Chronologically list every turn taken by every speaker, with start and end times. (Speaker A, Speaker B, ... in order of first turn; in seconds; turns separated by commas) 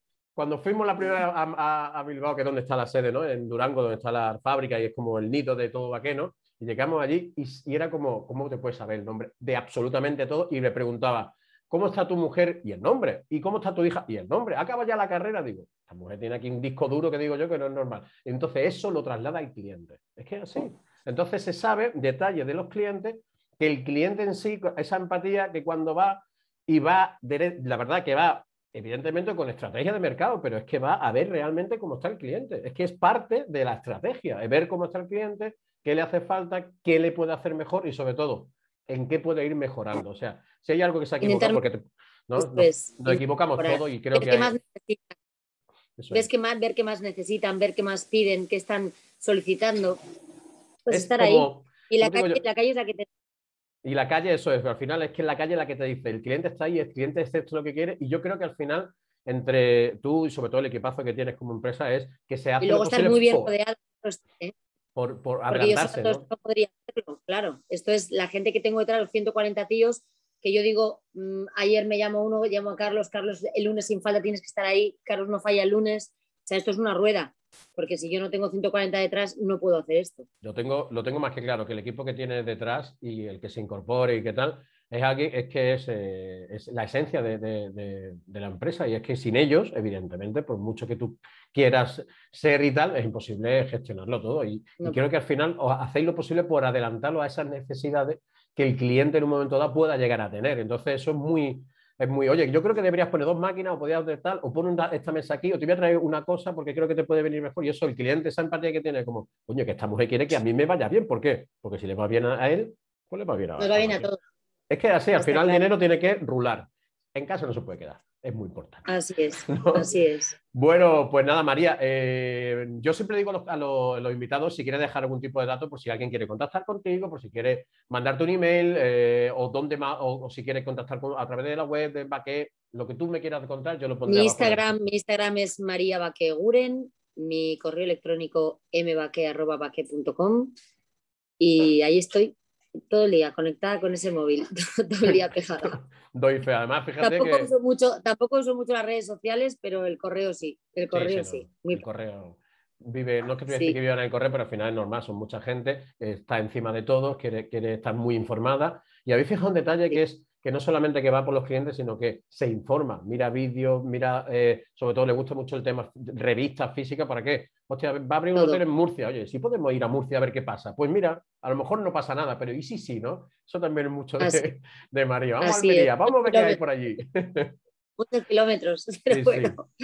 Speaker A: 0.3-44.5, Speaker B: 41.2-41.6, Speaker B: 42.4-45.1, Speaker A: 46.0-46.3, Speaker B: 46.1-50.0, Speaker B: 50.8-53.1, Speaker A: 50.9-52.4, Speaker A: 53.8-63.5, Speaker B: 62.6-64.5, Speaker A: 65.0-66.2, Speaker B: 65.5-80.2, Speaker A: 80.4-114.1, Speaker B: 113.6-114.2, Speaker A: 114.7-118.8, Speaker B: 115.2-115.6, Speaker B: 118.8-120.3, Speaker A: 119.5-119.8, Speaker A: 120.5-134.8, Speaker B: 134.1-140.5, Speaker B: 141.4-142.3, Speaker B: 142.9-145.8, Speaker A: 145.6-147.5, Speaker B: 147.0-151.8, Speaker A: 150.9-177.5, Speaker B: 153.5-153.8, Speaker B: 168.3-168.6, Speaker B: 174.2-174.4, Speaker B: 175.4-176.6, Speaker B: 178.0-179.7, Speaker A: 179.1-179.6